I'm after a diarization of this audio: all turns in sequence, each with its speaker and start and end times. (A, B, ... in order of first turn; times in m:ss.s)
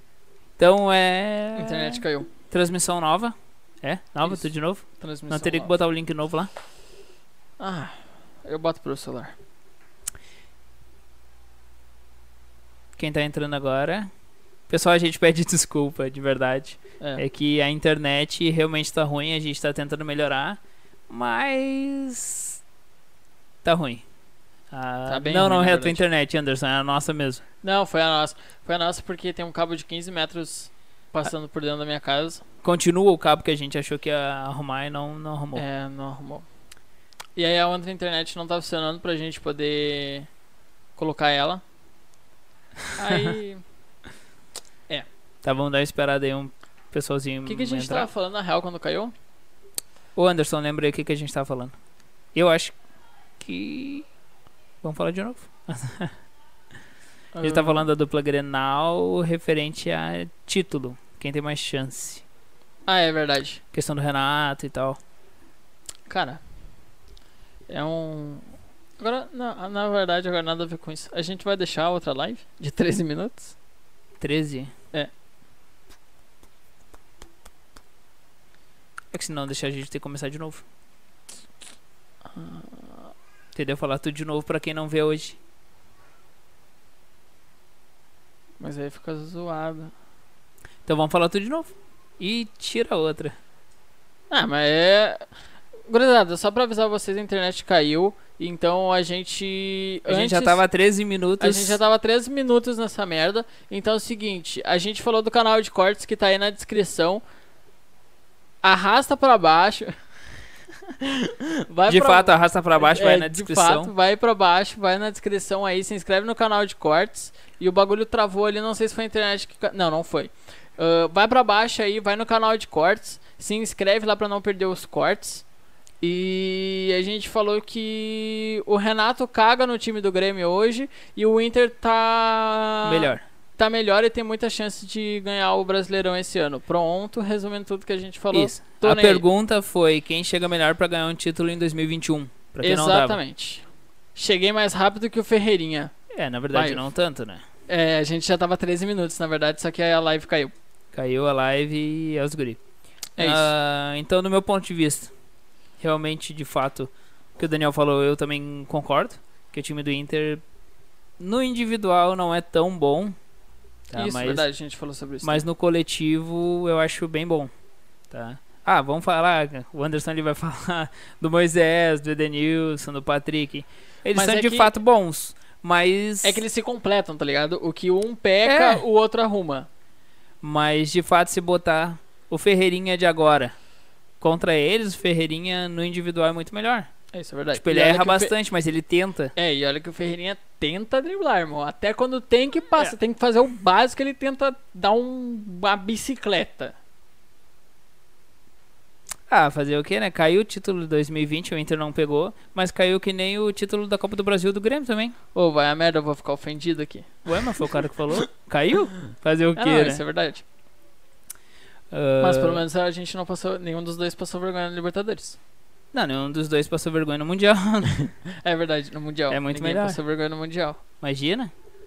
0:00.6-0:06.5 A
0:01.6-0:02.3 B
0:05.0-0:05.7 B
0:07.6-0:09.4 B
0:13.0-0:14.1 A
0:14.7-0:22.6 A
0:23.6-0:24.0 A
0:24.7-0:27.4 A
0:25.1-0:26.0 B
0:27.6-0:32.4 B
0:32.6-0:35.6 A
0:35.6-0:36.4 B
0:37.4-0:40.3 B
0:41.0-0:41.6 B
0:43.0-0:43.6 B
0:45.4-0:48.1 A
0:47.4-0:49.1 B
0:50.2-0:51.7 A
0:52.4-0:52.7 A
0:53.4-0:54.1 A
0:54.8-0:56.1 A
0:57.3-0:57.9 B
0:57.4-1:02.2 A
1:02.8-1:03.6 B
1:03.7-1:05.0 A
1:06.1-1:06.4 B
1:07.7-1:13.6 B
1:14.2-1:14.7 A
1:19.1-1:20.6 A
1:22.2-1:23.1 B
1:23.6-1:25.4 A
1:28.6-1:29.9 B
1:30.9-1:33.4 A
1:34.3-1:35.3 B
1:35.9-1:40.6 B
1:40.1-1:41.8 A
1:41.4-1:47.2 B
1:48.6-1:49.9 B
1:50.9-2:05.4 B
1:51.9-1:53.9 A
2:06.0-2:19.2 B
2:12.8-2:13.2 A
2:18.3-2:23.2 A
2:22.6-2:25.9 B
2:26.1-2:27.4 A
2:26.5-2:26.9 B
2:27.7-2:30.5 B
2:30.9-2:32.6 A
2:33.2-2:33.5 B
2:33.2-2:35.1 A
2:35.8-2:40.4 A
2:41.2-2:43.2 A
2:43.9-2:44.4 A
2:43.9-2:45.4 B
2:45.2-2:47.5 A
2:48.1-2:56.4 A
2:54.1-2:54.7 B
2:56.2-2:59.7 B
2:58.4-2:58.8 A
3:00.4-3:03.6 A
3:04.2-3:06.9 A
3:07.1-3:08.3 B
3:07.5-3:09.3 A
3:09.4-3:16.8 B
3:19.3-3:25.2 A
3:25.3-3:27.2 B
3:27.3-3:30.0 A
3:29.6-3:30.4 B
3:31.9-3:32.6 A
3:32.2-3:35.4 B
3:35.9-3:38.1 A
3:38.1-3:40.8 B
3:39.3-3:40.0 A
3:41.0-3:41.5 A